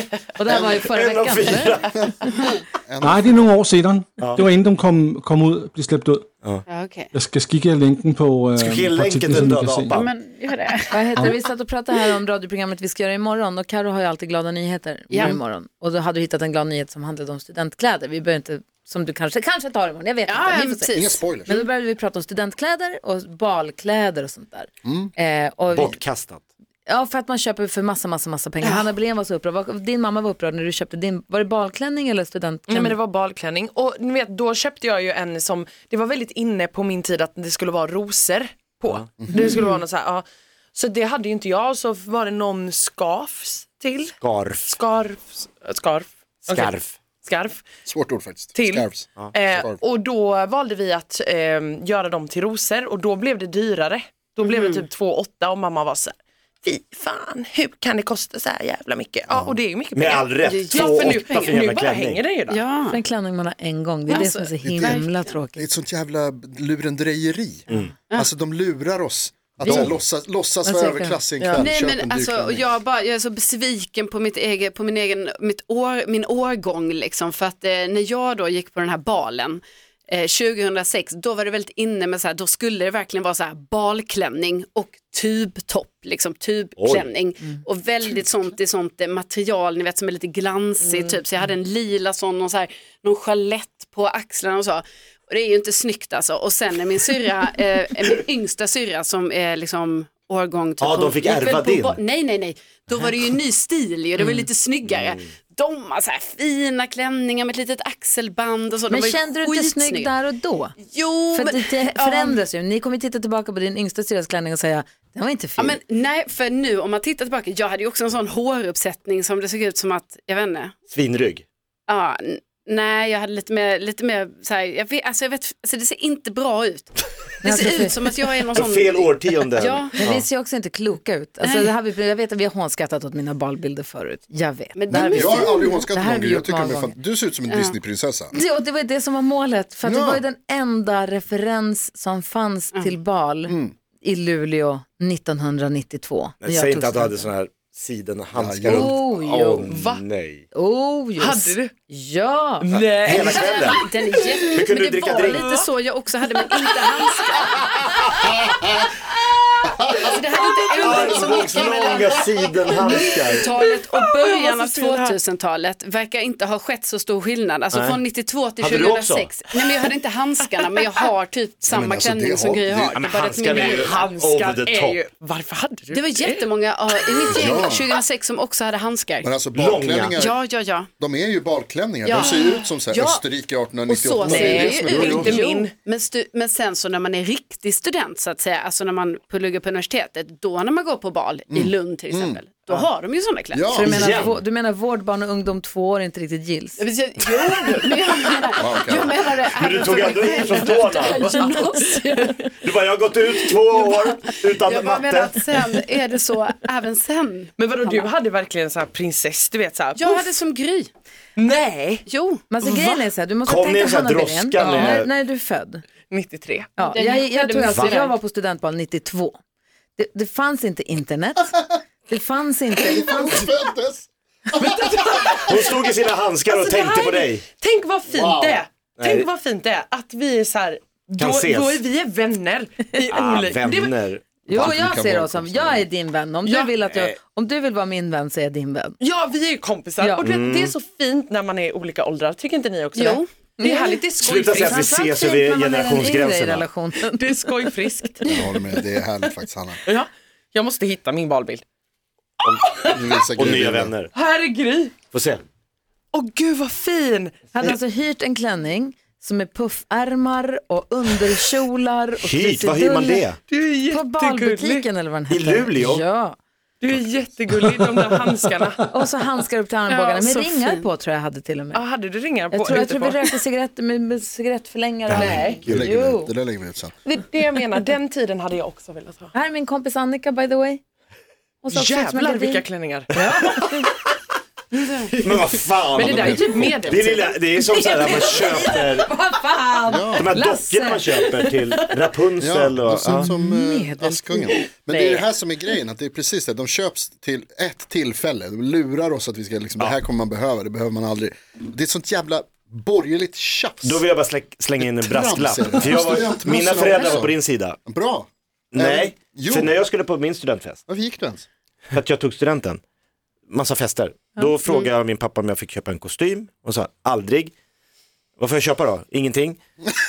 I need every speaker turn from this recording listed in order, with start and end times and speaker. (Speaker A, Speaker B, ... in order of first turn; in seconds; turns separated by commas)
Speaker A: 0.3-2.4, Speaker B: 0.5-2.1, Speaker C: 2.8-3.5, Speaker D: 3.0-6.3, Speaker B: 4.2-4.4, Speaker E: 6.7-7.1, Speaker D: 7.1-9.9, Speaker B: 8.6-10.1, Speaker E: 9.9-11.3, Speaker A: 10.9-26.0, Speaker E: 15.1-15.4, Speaker E: 20.3-21.7, Speaker C: 20.9-21.5, Speaker C: 24.8-25.1, Speaker B: 25.7-26.4, Speaker A: 26.9-33.0, Speaker F: 32.7-47.6, Speaker C: 39.2-39.5, Speaker B: 44.2-44.7, Speaker B: 46.5-47.0, Speaker C: 47.8-49.8, Speaker F: 48.5-62.6, Speaker E: 54.4-54.8, Speaker B: 59.9-62.2, Speaker E: 60.4-61.5, Speaker E: 62.5-63.0, Speaker A: 62.9-65.6, Speaker E: 64.1-65.3, Speaker C: 64.6-65.0, Speaker C: 65.5-72.7, Speaker A: 69.6-69.9, Speaker B: 69.6-69.9, Speaker A: 70.6-71.2, Speaker F: 71.4-71.7, Speaker E: 71.6-110.1, Speaker B: 86.8-87.1, Speaker B: 100.8-102.0, Speaker A: 108.9-110.8, Speaker E: 110.8-112.4, Speaker A: 111.3-115.8, Speaker E: 115.6-120.7, Speaker B: 120.9-121.4, Speaker E: 121.9-130.1, Speaker A: 127.4-128.0, Speaker B: 128.5-130.2, Speaker A: 130.0-136.9, Speaker E: 131.4-131.7, Speaker E: 134.8-135.8, Speaker C: 134.9-138.3, Speaker E: 137.5-137.8, Speaker A: 138.3-147.3, Speaker C: 139.8-140.2, Speaker C: 143.5-143.7, Speaker B: 146.4-150.4, Speaker C: 148.3-149.0, Speaker A: 148.6-149.7, Speaker F: 149.6-150.1, Speaker A: 150.5-152.7, Speaker F: 151.2-151.7, Speaker F: 152.6-153.7, Speaker B: 152.7-153.8, Speaker E: 153.3-157.6, Speaker B: 154.5-155.5, Speaker F: 155.1-155.7, Speaker F: 156.2-156.9, Speaker B: 157.6-158.0, Speaker E: 159.9-174.0, Speaker B: 160.8-163.5, Speaker F: 163.6-165.2, Speaker B: 167.7-168.0, Speaker B: 168.6-169.3, Speaker C: 171.7-173.0, Speaker B: 172.9-175.0, Speaker F: 173.5-176.5, Speaker E: 175.9-179.3, Speaker C: 177.2-177.9, Speaker C: 179.2-180.4, Speaker B: 179.5-180.2, Speaker E: 180.1-180.9, Speaker C: 181.0-185.4, Speaker E: 182.0-183.2, Speaker E: 183.8-193.9, Speaker F: 184.2-185.7, Speaker B: 184.9-185.4, Speaker C: 191.5-192.4, Speaker C: 193.5-194.3, Speaker A: 193.7-196.8, Speaker B: 193.8-194.3, Speaker E: 196.8-202.4, Speaker C: 198.6-199.1, Speaker B: 199.6-201.3, Speaker F: 201.4-202.0, Speaker B: 202.6-205.5, Speaker E: 203.3-208.1, Speaker F: 207.6-210.3, Speaker E: 209.9-210.9, Speaker F: 211.4-212.0, Speaker E: 212.1-212.5, Speaker A: 212.5-215.8, Speaker F: 212.6-212.9, Speaker B: 213.4-215.1, Speaker F: 214.6-214.9, Speaker F: 216.1-216.7, Speaker A: 216.8-219.4, Speaker E: 216.8-218.1, Speaker B: 217.7-218.0, Speaker A: 220.0-223.5, Speaker C: 222.8-225.1, Speaker F: 224.5-225.9, Speaker B: 225.4-227.4, Speaker F: 226.4-234.0, Speaker C: 228.1-228.6, Speaker B: 229.0-229.3, Speaker B: 231.2-231.8, Speaker B: 233.1-234.7, Speaker A: 234.5-239.0, Speaker C: 234.5-235.9, Speaker F: 236.4-236.7, Speaker B: 236.8-237.2, Speaker F: 239.0-244.9, Speaker A: 240.0-240.3, Speaker B: 240.2-240.7, Speaker E: 242.9-243.2, Speaker A: 243.6-244.0, Speaker B: 244.2-246.7, Speaker A: 244.6-247.7, Speaker F: 246.9-248.8, Speaker C: 248.2-249.8, Speaker F: 249.9-251.6, Speaker F: 252.6-252.9, Speaker C: 252.7-253.9, Speaker B: 253.4-254.1, Speaker F: 254.1-255.0, Speaker B: 255.1-255.4, Speaker F: 256.1-257.7, Speaker A: 257.5-263.3, Speaker B: 262.2-263.4, Speaker F: 263.5-264.8, Speaker A: 263.9-266.4, Speaker B: 265.3-266.0, Speaker F: 266.8-268.9, Speaker A: 268.9-271.8, Speaker E: 269.9-270.8, Speaker F: 271.7-273.3, Speaker A: 272.5-276.3, Speaker B: 275.1-275.8, Speaker F: 275.2-275.6, Speaker C: 275.6-276.9, Speaker F: 277.1-279.3, Speaker A: 279.3-280.8, Speaker A: 281.6-283.9, Speaker F: 281.7-283.9, Speaker F: 284.7-290.1, Speaker B: 285.2-289.1, Speaker A: 289.3-291.0, Speaker C: 289.9-290.3, Speaker B: 290.2-293.3, Speaker F: 290.8-291.6, Speaker C: 292.4-304.0, Speaker A: 293.2-295.0, Speaker B: 303.8-307.8, Speaker C: 304.8-309.8, Speaker B: 308.7-310.8, Speaker C: 310.9-311.4, Speaker B: 311.9-312.8, Speaker B: 313.5-317.5, Speaker B: 318.4-319.6